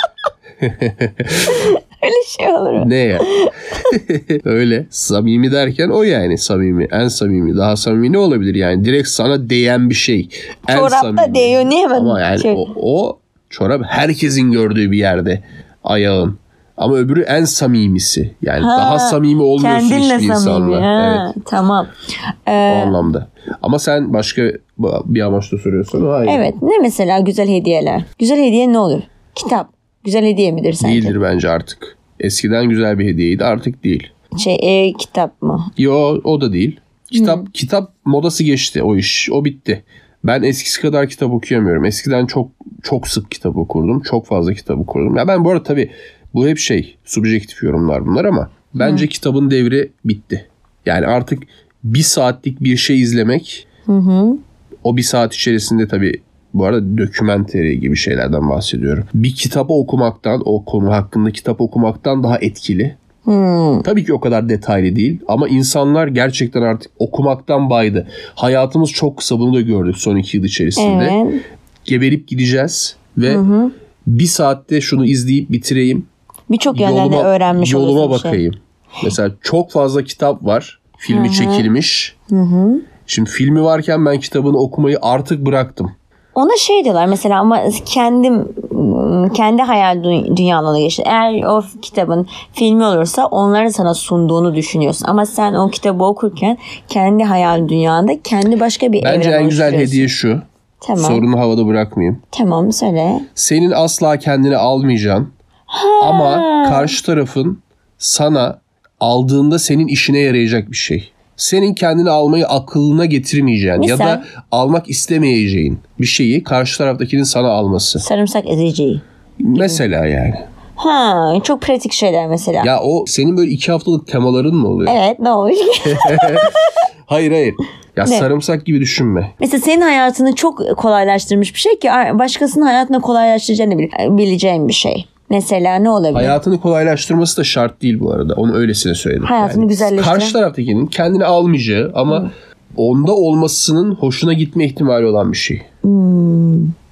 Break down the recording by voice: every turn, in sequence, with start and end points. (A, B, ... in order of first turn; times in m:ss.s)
0:00.6-0:01.6 A
0:01.5-0:03.5 B
0:02.8-0:21.3 A
0:10.7-0:12.6 B
0:18.6-0:21.9 B
0:22.5-0:23.0 B
0:22.6-0:26.4 A
0:26.2-0:31.1 B
0:30.8-0:34.1 A
0:34.4-0:35.7 B
0:35.8-0:53.6 A
0:37.1-0:37.5 B
0:48.8-0:49.1 B
0:53.9-0:54.4 B
0:54.8-1:03.0 A
1:03.2-1:03.8 B
1:03.8-1:11.2 A
1:10.8-1:11.4 B
1:11.8-1:13.4 A
1:13.2-1:13.7 B
1:14.0-1:16.1 A
1:16.5-1:18.4 B
1:16.7-1:22.1 A
1:21.1-1:21.7 B
1:22.3-1:22.8 B
1:23.1-1:25.9 A
1:26.3-1:40.1 B
1:39.0-1:40.4 A
1:40.8-1:41.2 B
1:41.0-1:42.2 A
1:42.3-1:43.2 B
1:43.4-1:45.3 A
1:45.7-1:46.9 B
1:46.0-1:58.0 A
1:53.8-1:54.2 B
1:58.0-1:59.0 B
1:59.4-2:00.4 A
1:59.5-1:59.8 B
2:00.8-2:02.7 B
2:02.6-2:05.0 A
2:04.8-2:06.6 B
2:05.9-2:06.5 A
2:07.1-2:09.3 A
2:09.4-2:16.4 B
2:16.1-2:25.6 A
2:19.2-2:20.4 B
2:25.8-2:26.7 B